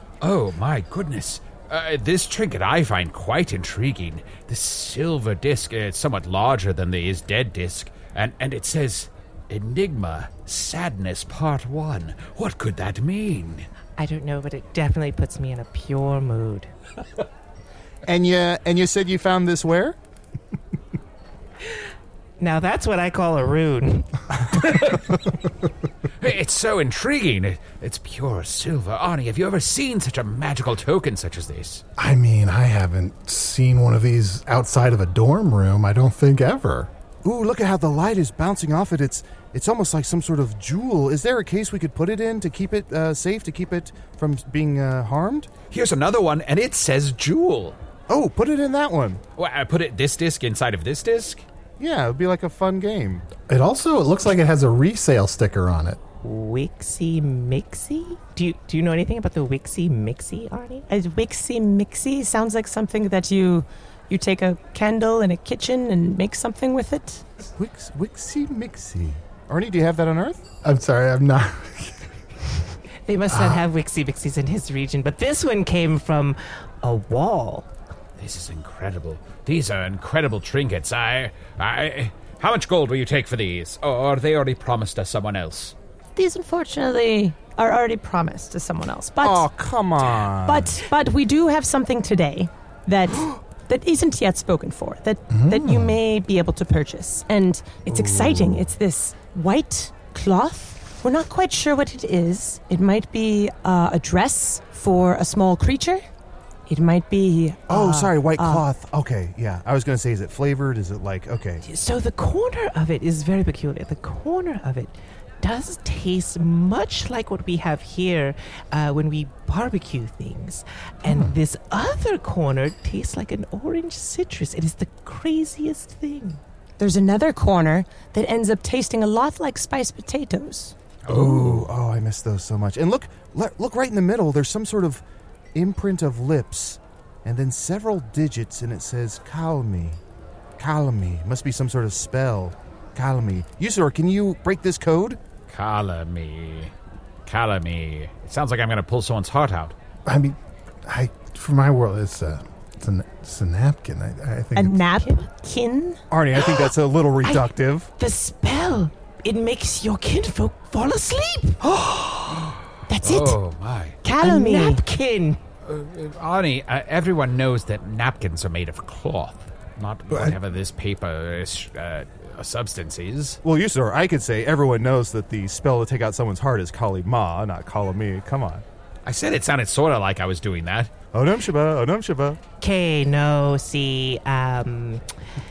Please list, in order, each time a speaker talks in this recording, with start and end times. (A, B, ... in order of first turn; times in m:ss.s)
0:00.2-0:13.7 A
0:14.0-0:16.7 B
0:18.1-0:20.0 C
0:22.4-0:24.7 B
0:24.7-0:25.0 A
0:26.2-0:31.8 A
0:32.0-0:36.9 D
0:37.2-0:45.5 C
0:45.7-0:47.8 A
0:48.1-0:49.2 C
0:49.4-0:51.4 A
0:51.8-0:53.2 C
0:53.5-0:56.0 D
0:56.2-1:00.9 B
1:00.9-1:07.2 E
1:07.6-1:10.4 C
1:10.6-1:12.0 D
1:13.1-1:17.7 B
1:13.3-1:13.6 D
1:18.2-1:25.8 A
1:26.2-1:29.5 E
1:29.2-1:30.8 C
1:30.4-1:46.0 E
1:35.3-1:36.0 D
1:37.9-1:38.7 C
1:46.7-1:48.6 E
1:47.7-1:51.6 C
1:51.6-2:06.4 B
2:01.0-2:01.4 D
2:06.8-2:10.7 E
2:11.1-2:11.7 A
2:11.1-2:15.0 C
2:15.6-2:20.0 C
2:20.6-2:25.2 C
2:25.5-2:26.7 A
2:27.3-2:29.7 A
2:30.1-2:34.8 D
2:34.6-2:36.0 E
2:36.1-2:37.9 C
2:36.4-2:36.7 B
2:37.2-2:42.1 B
2:42.3-2:44.0 A
2:42.9-2:43.4 E
2:44.0-2:44.8 E
2:44.2-2:45.4 B
2:45.6-2:53.4 A
2:53.4-2:58.6 C
2:59.1-3:00.9 A
3:01.1-3:02.4 C
3:02.6-3:05.0 B